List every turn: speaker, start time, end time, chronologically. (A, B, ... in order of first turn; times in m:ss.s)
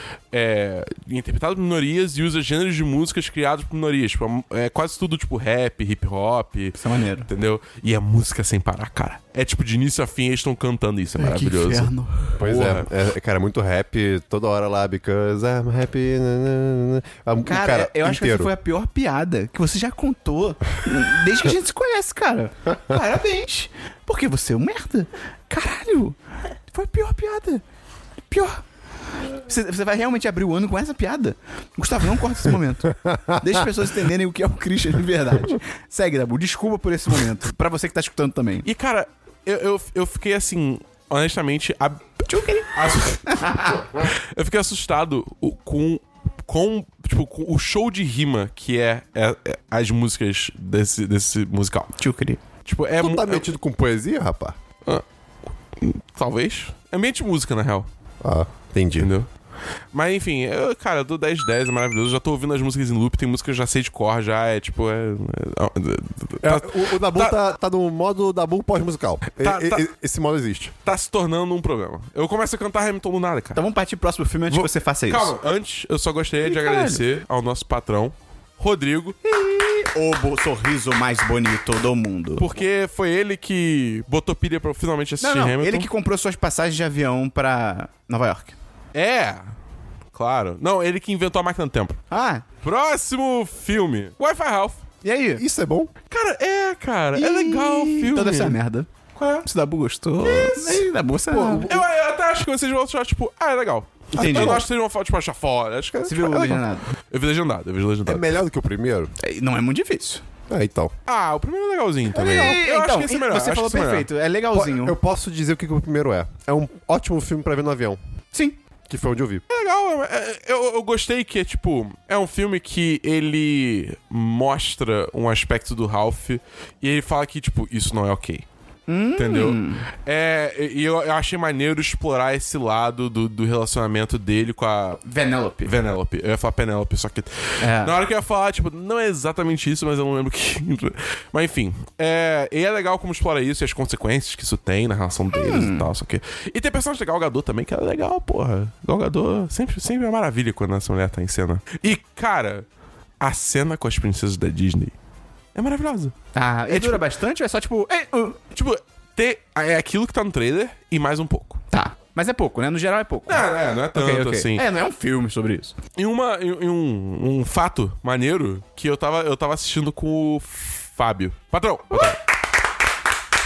0:00.3-0:12.9 A
0:06.8-0:07.3 B
0:11.2-0:12.4 B
0:12.4-0:18.5 C
0:17.4-0:26.2 B
0:26.7-0:27.6 B
0:28.3-0:28.6 B
0:29.4-0:38.7 B
0:33.0-0:33.3 C
0:38.6-0:52.0 A
0:42.3-0:43.8 B
0:52.0-0:52.4 B
0:52.6-0:53.5 A
0:53.0-0:54.6 C
0:55.8-0:57.9 A
0:58.2-0:59.1 C
0:59.0-0:59.3 A
0:59.9-1:07.4 A
1:06.4-1:10.7 C
1:09.4-1:09.8 A
1:10.8-1:13.6 A
1:13.6-1:15.4 B
1:14.5-1:19.2 A
1:16.4-1:17.0 B
1:19.2-1:22.4 B
1:22.4-1:25.9 A
1:25.2-1:28.6 B
1:28.9-1:29.5 A
1:30.1-1:32.0 A
1:32.1-1:32.4 B
1:32.6-1:34.8 A
1:35.0-1:35.4 B
1:35.4-1:35.9 C
1:36.1-1:38.6 A
1:37.2-1:41.7 B
1:39.2-1:39.4 A
1:40.2-1:40.9 A
1:41.3-1:41.8 C
1:41.6-1:48.3 A
1:44.1-1:44.6 B
1:44.2-1:44.6 C
1:46.0-1:46.9 B
1:48.1-1:49.1 C
1:49.2-1:50.2 B
1:50.5-1:50.9 C
1:51.1-1:54.1 A
1:52.1-1:55.0 B
1:54.5-1:58.0 C
1:58.3-1:58.6 B
1:58.9-1:59.4 C
1:59.5-2:08.4 A
2:08.9-2:09.9 B
2:09.2-2:15.0 A
2:15.0-2:15.7 B
2:15.6-2:32.6 A
2:17.6-2:18.0 B
2:25.3-2:25.9 B
2:33.2-2:34.9 A
2:35.6-2:36.2 A
2:36.4-2:38.4 B
2:36.7-2:37.0 A
2:38.5-2:41.6 A
2:41.7-2:45.8 B
2:43.3-2:44.6 A
2:46.0-2:52.2 A